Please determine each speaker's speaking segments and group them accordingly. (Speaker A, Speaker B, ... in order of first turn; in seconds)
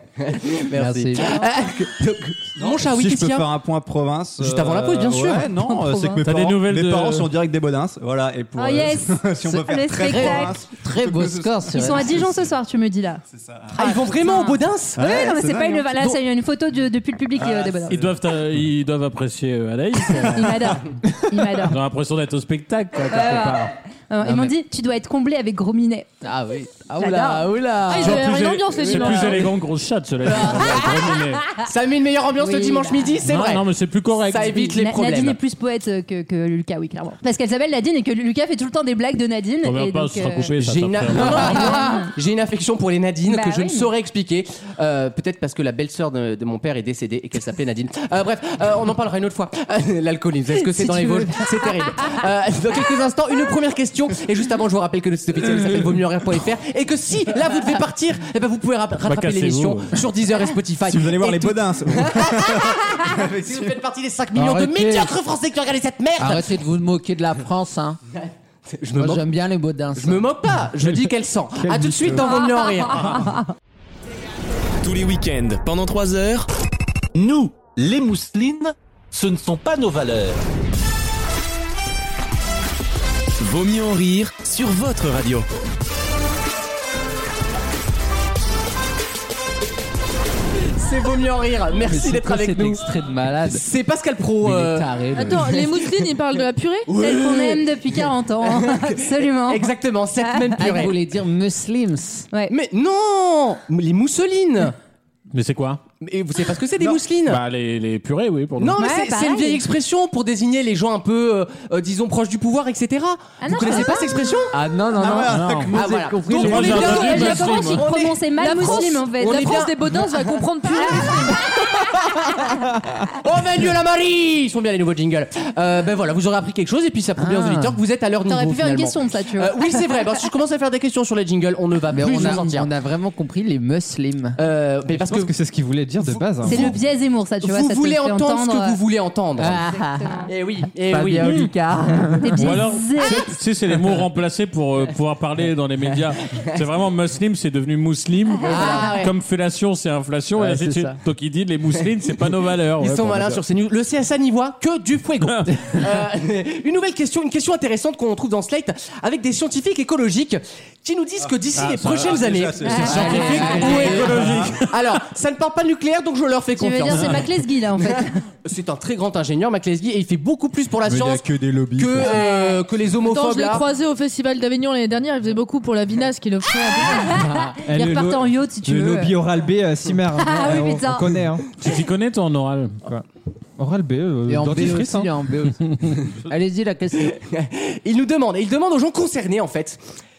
Speaker A: 0.2-3.5, 4.4-5.5, 13.8-15.0, 30.5-30.9, 31.6-33.7, 34.3-35.4, 40.5-66.5, 68.7-69.3, 70.0-73.3, 90.8-92.8, 93.5-95.7, 96.9-101.0, 102.5-104.8, 106.0-107.4, 108.6-114.5, 115.7-119.8, 123.1-132.7, 134.4-135.3, 136.0-136.8, 137.4-139.6, 140.3-141.3, 148.4-149.1, 152.8-173.7, 187.2-189.8
Speaker B: 0.7-1.4, 10.0-12.2, 24.2-24.5, 26.2-28.3, 28.8-29.5, 30.3-31.0, 64.3-65.1, 66.2-68.0, 69.0-70.3, 91.8-93.6, 94.4-95.7, 100.6-102.3, 114.5-117.3, 127.2-127.8, 131.9-134.4, 139.4-140.3, 140.8-142.6, 150.4-151.0, 162.8-164.3, 184.3-187.2
Speaker C: 2.6-12.5, 13.3-13.8, 15.0-16.1, 17.4-18.1, 60.8-63.8, 115.0-116.7, 161.2-164.6, 170.8-172.2
Speaker D: 5.6-6.2, 8.6-10.6, 11.7-13.2, 13.7-18.1, 20.2-21.8, 23.1-26.1, 27.0-27.5, 32.4-33.2, 34.5-40.5, 41.1-42.1, 43.3-43.9, 50.7-51.5, 97.0-100.8, 108.8-109.6, 113.4-114.4, 116.7-119.6, 120.8-122.5, 128.3-129.7, 136.4-138.8, 139.6-140.3, 142.2-143.3, 148.5-148.9, 162.6-164.0, 166.6-168.2, 172.0-172.6, 176.8-179.2, 180.2-181.1
Speaker E: 6.2-7.3, 17.9-20.8, 21.7-23.7, 28.0-31.4, 33.2-34.7, 39.6-41.6, 59.0-60.0, 105.3-105.8, 107.3-108.8, 115.3-115.7, 116.4-117.8, 141.2-141.5, 142.4-153.4, 162.9-164.7, 181.6-182.8
Speaker F: 27.9-29.5, 95.1-96.9, 118.4-121.5, 173.0-177.2
Speaker G: 71.6-72.2, 134.9-136.7, 177.7-181.5, 183.6-185.1
Speaker H: 74.8-76.5, 83.4-85.5
Speaker I: 77.2-80.3